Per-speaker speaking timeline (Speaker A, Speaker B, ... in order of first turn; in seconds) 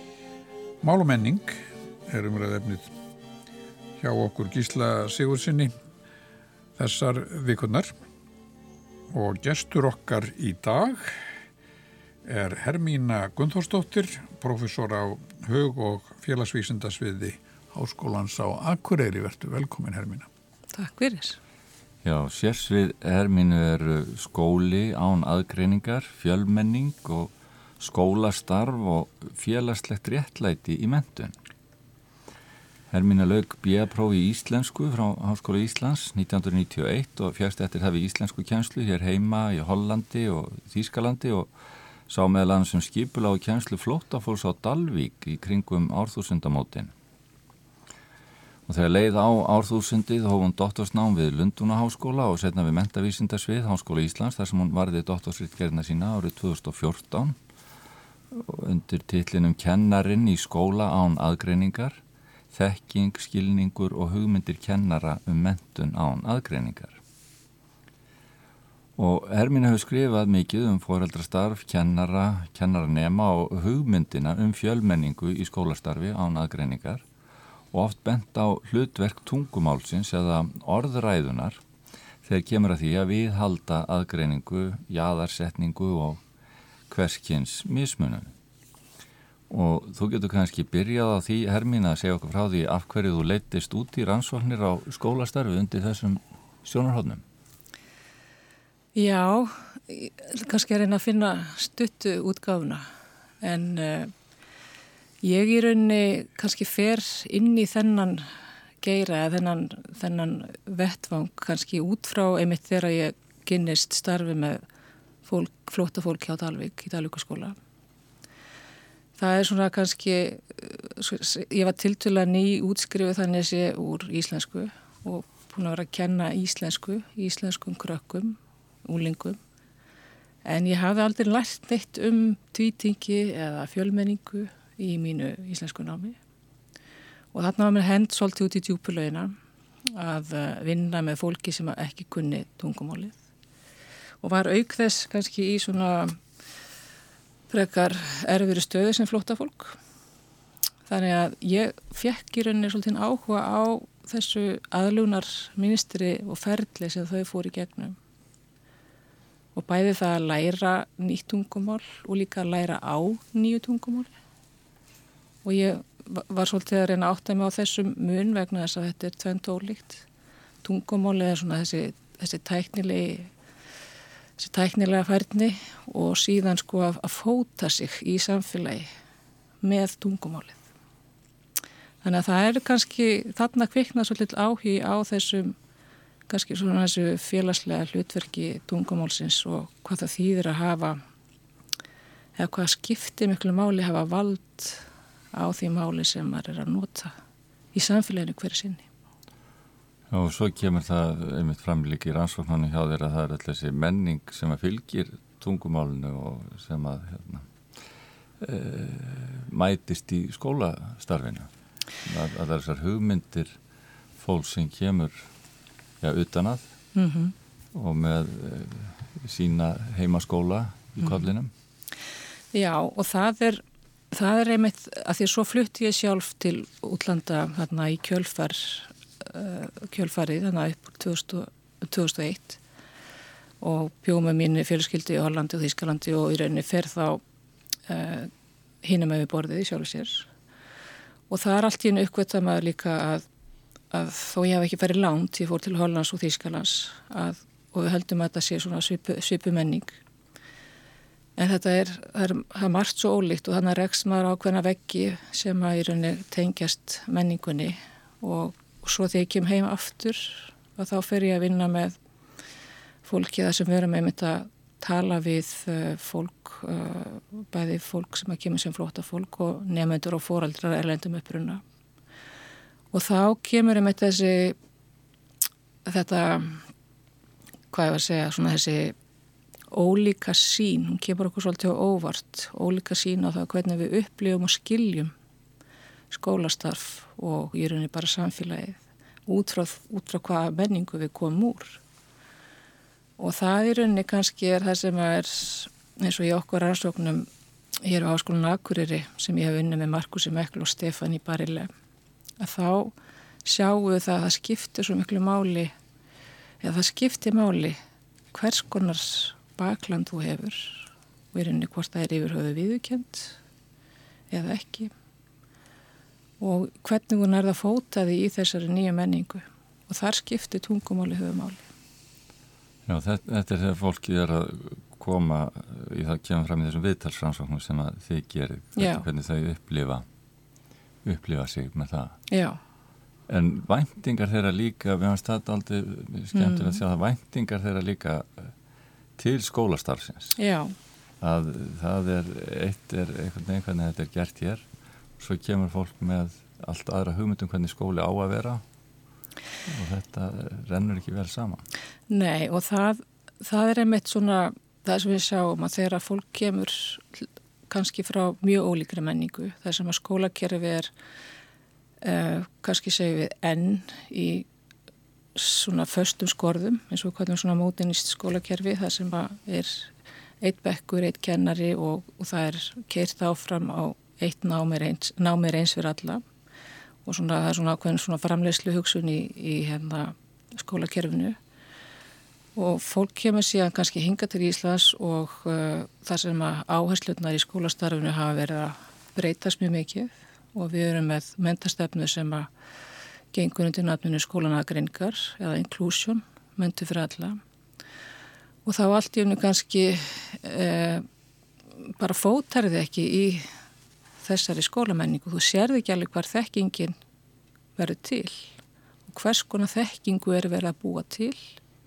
Speaker A: 0.8-2.9, 4.0-5.7, 6.8-7.9, 9.1-11.2, 12.2-20.3
Speaker B: 20.7-21.4, 99.0-102.8, 103.4-104.1, 105.2-108.3, 108.8-114.6, 115.2-117.6, 119.2-129.4, 130.4-136.2, 137.3-139.3, 139.9-143.2, 144.2-146.2, 147.5-149.8, 150.9-158.0, 159.6-164.1, 165.4-170.1, 170.6-173.3, 174.4-178.9, 179.6-180.6, 182.0-185.6, 186.3-191.0, 192.4-197.1, 197.7-198.9, 216.9-217.3, 222.5-232.6, 233.6-237.2, 237.9-238.3, 238.8-240.3, 241.3-243.3, 243.9-250.0, 251.4-262.0, 263.0-271.6, 272.9-274.6, 275.9-276.6, 277.7-279.0, 279.7-285.1, 286.1-291.8, 293.2-297.3, 297.8-301.7, 302.4-302.9, 303.4-305.7, 306.6-307.8, 308.3-313.4, 314.3-314.9, 316.4-321.7, 328.8-329.1, 332.3-332.6, 336.3-336.8, 340.4-340.7, 352.1-360.9, 362.0-364.5, 365.4-376.2, 377.1-381.4, 382.6-392.5, 393.3-397.4, 398.6-401.1, 401.9-403.5, 404.2-407.0, 407.8-408.5, 409.1-411.4
Speaker C: 22.0-31.4, 32.9-41.5, 42.1-46.9, 48.7-57.4, 58.3-62.0, 62.5-67.0, 69.0-77.0, 77.7-81.6, 82.2-86.2, 86.9-88.3, 89.5-97.2, 200.1-207.5, 208.4-211.5, 212.0-213.6, 214.2-215.3, 216.0-216.7, 217.7-221.5, 322.9-330.1, 331.0-332.2, 333.3-338.5, 339.2-340.4, 341.2-344.6, 345.2-348.6, 349.6-351.6